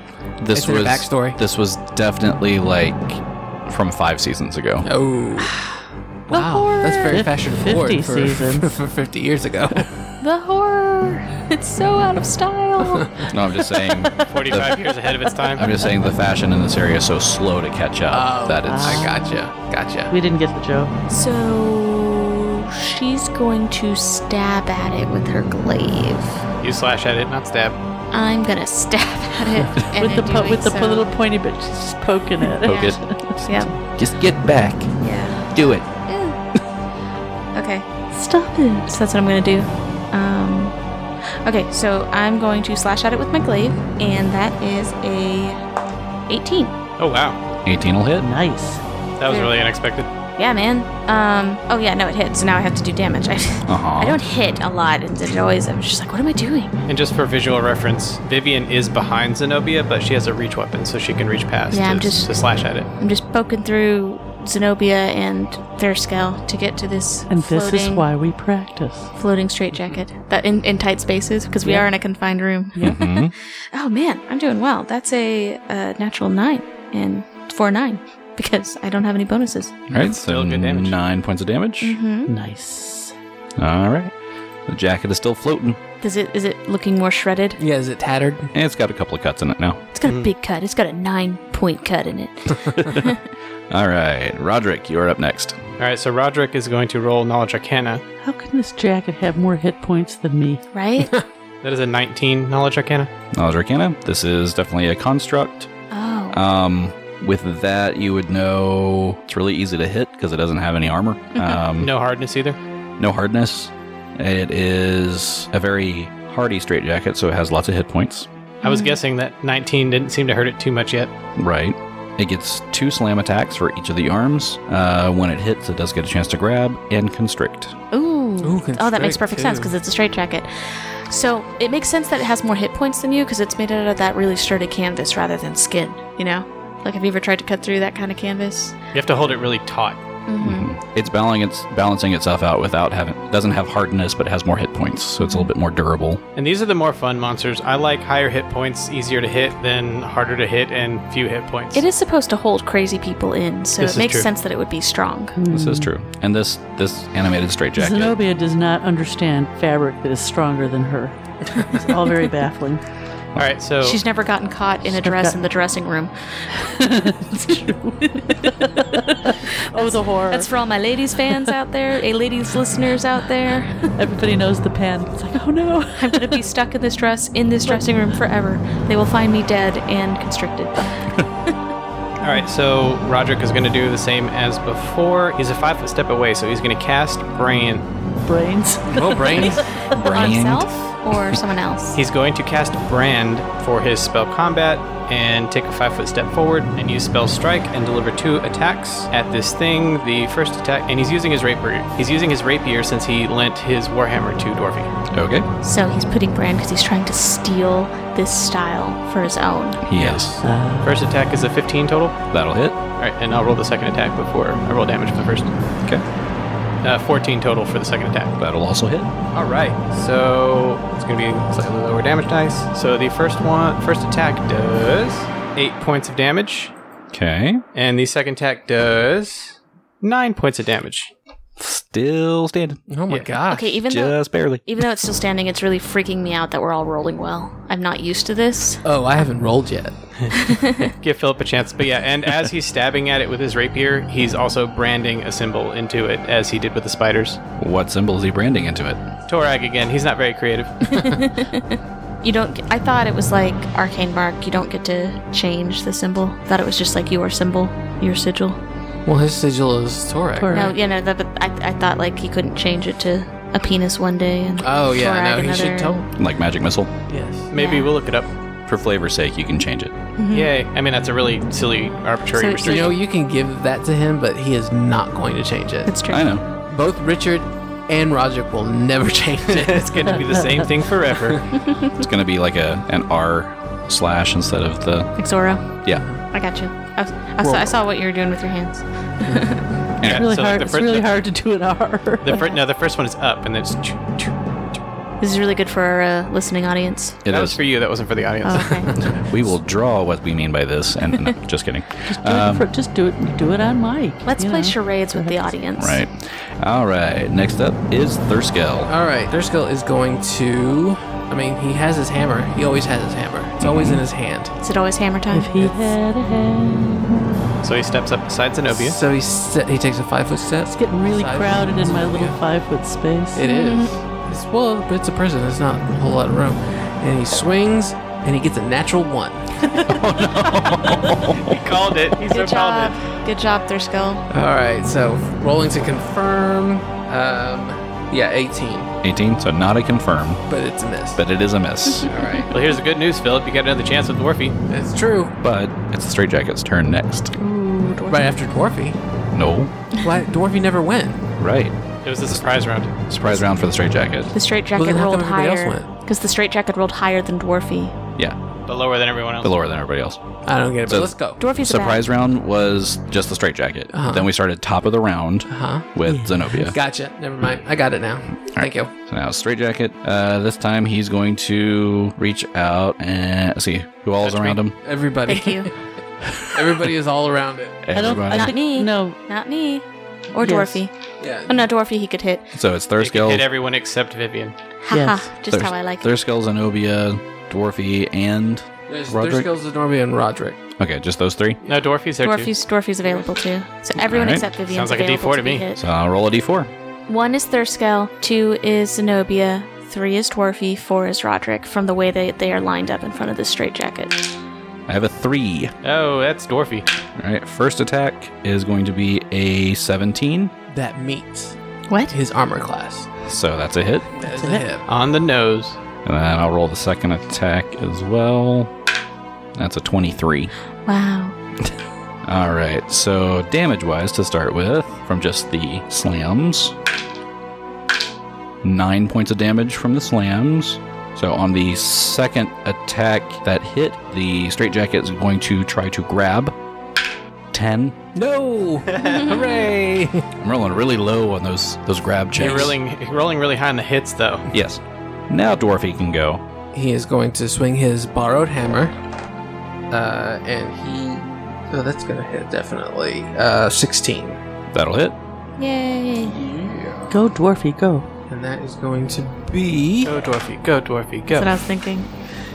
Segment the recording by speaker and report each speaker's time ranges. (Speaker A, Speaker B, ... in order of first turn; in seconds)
Speaker A: 0.4-4.9, 13.3-14.9, 15.5-19.1, 32.6-35.9, 47.6-48.3, 53.7-54.2, 72.8-73.3, 79.9-82.0, 83.6-84.1, 84.7-85.8, 88.5-89.8, 92.8-93.0, 93.7-95.6, 103.3-105.7, 106.3-111.9, 113.0-118.3, 121.3-127.8, 140.4-146.2, 155.5-158.2, 189.9-190.7, 205.1-205.5, 209.8-210.4, 212.3-212.8, 218.4-219.1, 227.1-227.6, 231.6-232.8, 233.9-234.6, 247.6-249.0, 266.1-266.9, 268.7-269.9, 276.1-276.4, 281.9-285.3, 290.0-290.3, 297.2-297.6, 299.2-302.7, 305.8-308.9, 313.6-314.0, 329.8-331.4, 339.0-340.4, 341.1-342.1, 345.4-347.3, 349.3-349.7, 351.4-354.3, 359.4-360.2, 360.8-366.8, 368.5-374.8, 376.3-376.7, 377.8-378.5, 382.5-383.5, 385.5-389.5, 390.8-391.6, 394.0-394.4, 395.8-396.7, 404.9-405.7, 407.1-410.5, 413.2-414.1, 416.0-418.7, 419.6-420.5, 422.2-426.8, 428.6-436.5, 437.5-437.9, 440.4-442.8, 444.5-446.4, 454.7-455.1
Speaker B: 0.5-1.4, 4.8-5.5, 6.3-9.9, 12.8-13.3, 18.1-20.1, 87.6-88.5, 128.4-129.7, 188.9-189.6, 232.9-233.8, 238.8-240.4, 259.0-260.5, 264.6-266.1, 267.1-267.5, 272.6-275.9, 276.6-280.4, 285.9-286.2, 287.4-287.8, 289.2-289.7, 308.9-314.5, 318.7-322.4, 323.3-329.7, 334.3-338.9, 340.5-341.2, 342.0-342.5, 344.7-345.3, 348.1-349.0, 349.9-351.2, 354.7-355.9, 360.4-361.4, 363.9-364.3, 365.5-365.9, 366.6-368.9, 374.2-375.8, 376.5-377.9, 381.2-381.6, 388.9-390.6, 410.7-411.5, 412.1-413.1, 414.1-414.9, 438.1-440.2, 446.7-448.9, 449.9-454.4, 456.3-457.1, 458.3-460.2
Speaker C: 5.4-7.3, 10.2-13.2, 21.1-26.4, 28.1-31.1, 32.6-33.7, 35.0-36.4, 37.5-37.9, 38.8-40.7, 41.4-45.6, 46.3-46.7, 49.2-49.6, 50.3-56.7, 61.7-62.4, 63.0-68.1, 69.1-79.7, 81.8-82.3, 86.0-87.6, 89.9-93.2, 100.7-101.1, 105.9-106.4, 111.3-111.6, 118.6-119.0, 127.9-138.7, 140.3-140.7, 145.2-145.5, 151.7-155.3, 163.8-166.7, 167.3-168.6, 169.7-173.9, 176.0-181.5, 189.4-192.0, 205.6-209.8, 233.5-238.8, 240.3-240.9, 250.9-258.6, 260.5-266.0, 267.5-267.9, 270.2-270.5, 272.3-273.0, 275.9-276.2, 285.2-285.6, 286.3-289.6, 295.2-297.2, 298.4-298.9, 304.2-306.0, 314.6-315.5, 323.4-323.9, 332.2-334.2, 347.3-348.2, 354.3-357.9, 361.4-362.0, 375.2-375.7, 378.3-380.9, 381.4-382.5, 384.8-386.1, 392.2-395.8, 397.1-404.3, 420.9-421.4, 439.0-439.3, 455.6-456.4, 461.3-462.1
Speaker D: 7.1-8.8, 13.8-14.6, 18.6-19.4, 20.1-20.9, 30.0-33.4, 38.1-38.9, 48.2-48.8, 67.3-69.1, 71.6-71.9, 72.7-73.0, 82.2-83.1, 98.2-100.6, 155.3-155.9, 157.8-162.8, 164.9-165.4, 166.6-170.5, 173.9-176.4, 188.2-189.9, 210.4-210.9, 260.4-260.7, 290.1-292.5, 302.1-305.5, 315.3-317.6, 320.7-323.4, 329.7-330.0, 366.0-366.6, 377.9-379.2, 380.4-380.8, 384.9-385.3, 414.4-414.6, 457.1-458.1
Speaker E: 14.3-15.7, 26.6-27.8, 47.0-47.4, 49.2-50.1, 56.9-62.9, 79.9-81.0, 90.0-90.3, 95.8-98.0, 101.6-103.1, 111.8-112.6, 118.6-121.1, 138.9-140.0, 146.3-151.8, 153.8-154.3, 163.3-164.0, 182.2-187.9, 191.9-204.9, 210.0-212.2, 212.9-215.5, 216.8-218.3, 219.3-226.7, 227.7-231.1, 241.0-247.4, 249.3-251.1, 267.5-268.3, 270.3-272.9, 279.5-281.5, 290.0-291.3, 292.2-294.5, 297.3-299.0, 317.6-319.0, 331.4-333.0, 342.5-344.6, 352.0-352.9, 358.7-359.5, 383.0-384.5, 391.6-392.5, 394.7-395.6, 405.8-406.9, 414.9-415.8, 442.4-444.5, 460.0-461.6